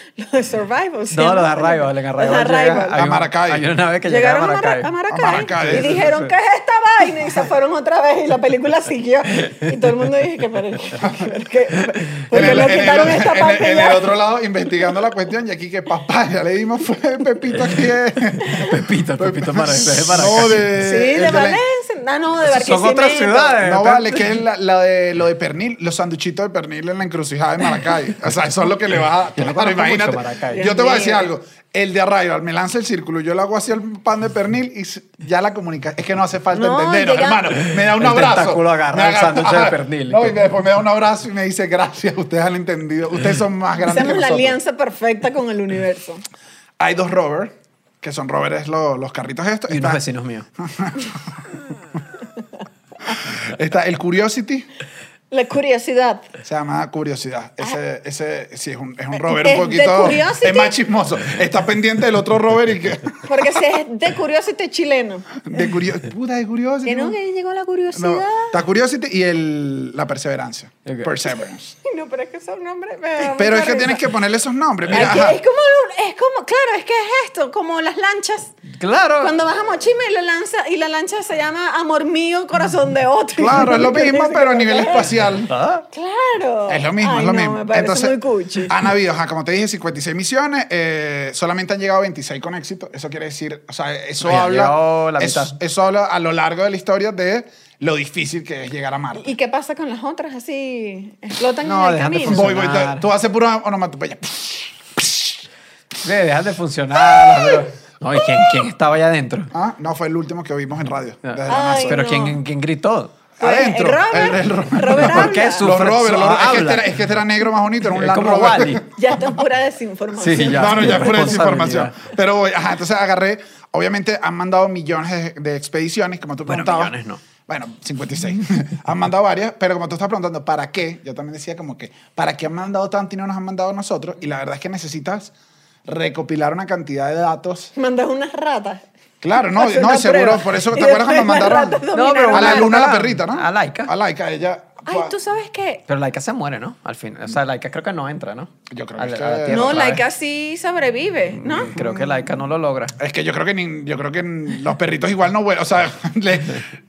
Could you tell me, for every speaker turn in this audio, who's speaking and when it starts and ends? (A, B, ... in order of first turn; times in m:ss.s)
0:00.2-0:03.0 A
0:01.1-0:04.9 B
0:02.9-0:03.6 C
0:04.1-0:14.1 A
0:05.1-0:06.1 C
0:05.6-0:06.3 B
0:11.0-0:11.3 C
0:12.3-0:21.6 C
0:18.6-0:20.7 B
0:20.8-0:23.6 A
0:22.4-0:24.4 B
0:23.6-0:44.6 C
0:29.4-0:30.7 B
0:30.5-0:31.3 A
0:36.5-0:37.5 A
0:37.7-0:40.4 B
0:43.8-0:46.2 A
0:46.8-0:50.0 C
0:49.7-0:50.5 B
0:50.6-0:51.2 C
0:53.1-0:54.7 C
0:55.3-0:56.2 A
0:56.4-1:03.6 C
0:59.1-1:00.7 A
1:03.2-1:05.4 A
1:05.4-1:07.2 C
1:06.8-1:08.6 A
1:07.9-1:11.7 C
1:10.8-1:11.1 B
1:11.8-1:14.1 A
1:13.2-1:15.4 C
1:14.9-1:18.5 A
1:18.7-1:19.4 B
1:19.2-1:25.1 A
1:23.4-1:25.5 C
1:25.5-1:25.9 B
1:25.9-1:28.8 A
1:26.7-1:39.3 C
1:34.2-1:35.5 B
1:39.1-1:42.5 A
1:41.6-1:43.1 B
1:42.2-1:45.4 C
1:46.0-1:49.5 B
1:47.0-1:47.5 C
1:49.5-1:52.2 C
1:51.2-1:53.2 B
1:51.5-1:52.4 A
1:53.4-1:59.4 C
1:53.4-1:55.7 A
1:54.9-1:57.0 B
1:57.9-1:58.8 B
1:58.9-2:01.3 A
2:00.2-2:02.0 B
2:00.5-2:06.9 C
2:06.4-2:07.2 B
2:07.5-2:15.3 C
2:15.8-2:17.7 C
2:17.8-2:18.8 A
2:19.2-2:25.1 C
2:19.4-2:22.8 A
2:21.9-2:23.9 B
2:24.8-2:25.8 A
2:25.9-2:30.0 B
2:28.7-2:30.0 C
2:29.5-2:31.9 A
2:31.3-2:32.9 B
2:33.0-2:36.7 C